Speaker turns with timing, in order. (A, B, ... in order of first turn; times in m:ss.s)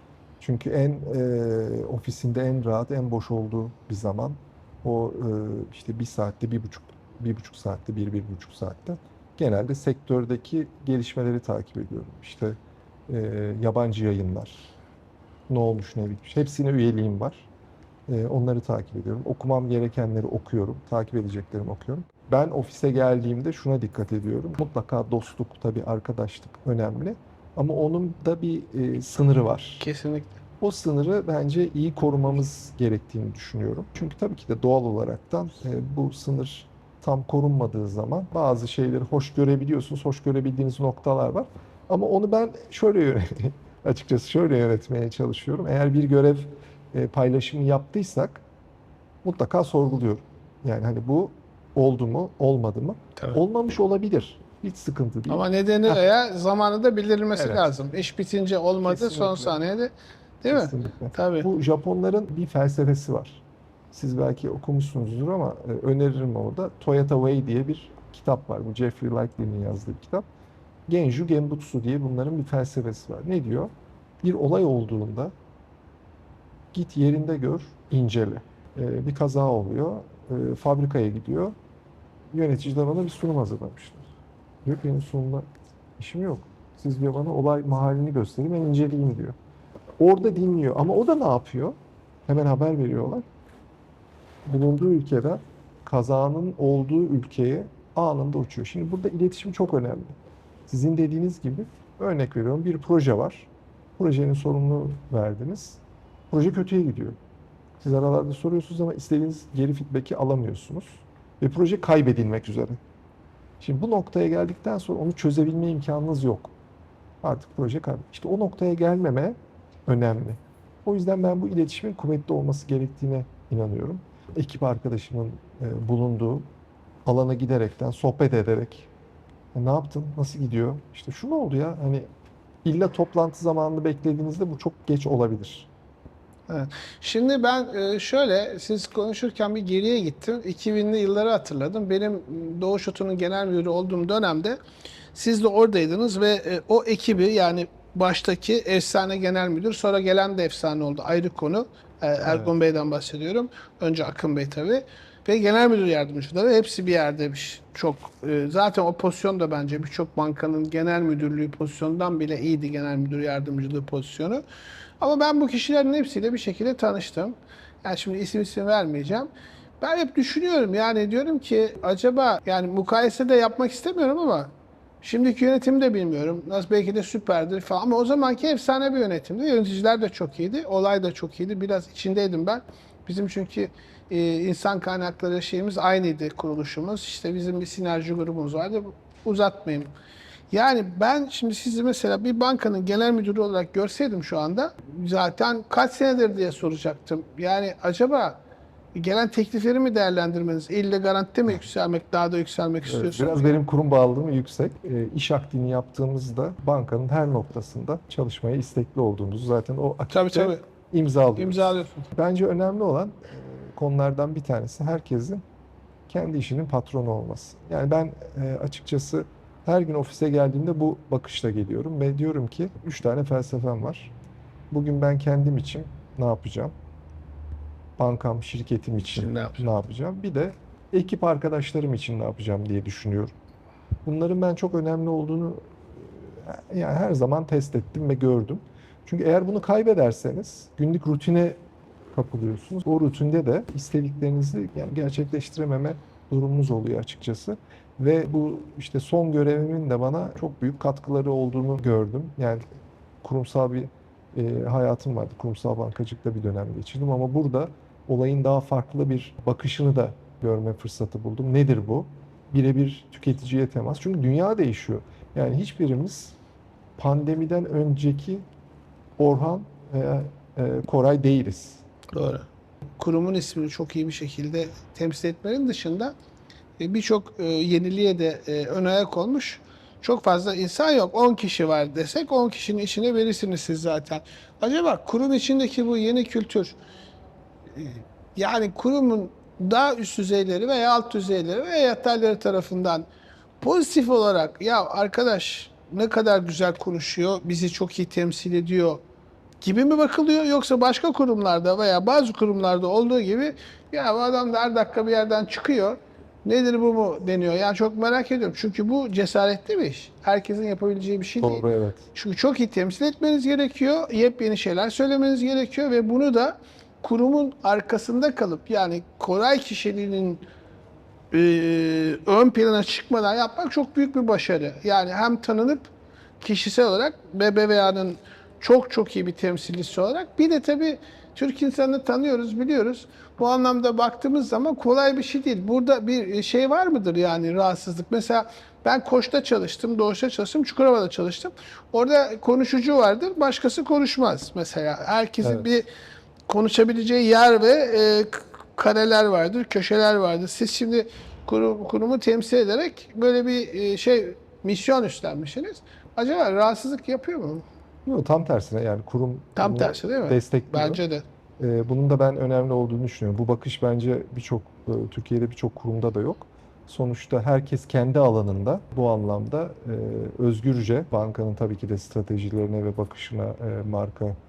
0:00.4-0:12.6 A
0:13.1-0:14.7 A
0:15.5-0:17.5 A
0:18.1-0:29.8 A
0:29.8-0:30.4 B
0:30.6-0:48.4 A
0:49.2-0:56.0 A
0:55.3-1:01.5 B
0:57.4-0:57.7 A
0:58.8-0:59.6 A
1:00.5-1:10.3 A
1:10.9-1:13.7 A
1:14.2-1:15.3 A
1:16.7-1:21.5 A
1:22.3-1:24.1 A
1:24.6-1:25.5 A
1:26.0-1:29.4 A
1:30.0-1:33.2 A
1:34.5-1:40.2 A
1:40.7-1:47.2 A
1:47.8-1:52.8 A
1:53.6-1:56.5 A
1:57.2-1:59.4 A
1:59.9-2:06.5 A
2:07.0-2:08.9 A
2:09.5-2:12.1 A
2:12.6-2:15.7 A
2:16.5-2:24.6 B
2:25.1-2:44.4 B
2:32.2-2:32.5 A
2:45.0-3:09.9 B
3:10.5-3:18.4 B
3:19.0-3:23.5 B
3:22.9-3:35.4 A
3:30.1-3:30.6 B
3:31.4-3:32.1 B
3:36.1-3:44.1 A
3:44.7-3:46.7 A
3:48.0-3:53.3 A
3:49.2-3:49.6 B
3:54.0-4:01.6 A
4:02.1-4:12.6 A
4:13.2-4:26.4 A
4:27.0-4:28.4 A
4:29.2-4:31.8 A
4:32.1-4:36.1 B
4:36.8-4:46.8 B
4:47.7-4:53.1 B
4:53.6-4:59.0 B
4:59.6-5:20.4 B
5:11.4-5:12.1 A
5:21.3-5:45.9 B
5:46.5-5:57.7 B
5:58.0-6:01.0 A
5:59.6-6:01.2 B
6:01.6-6:14.4 A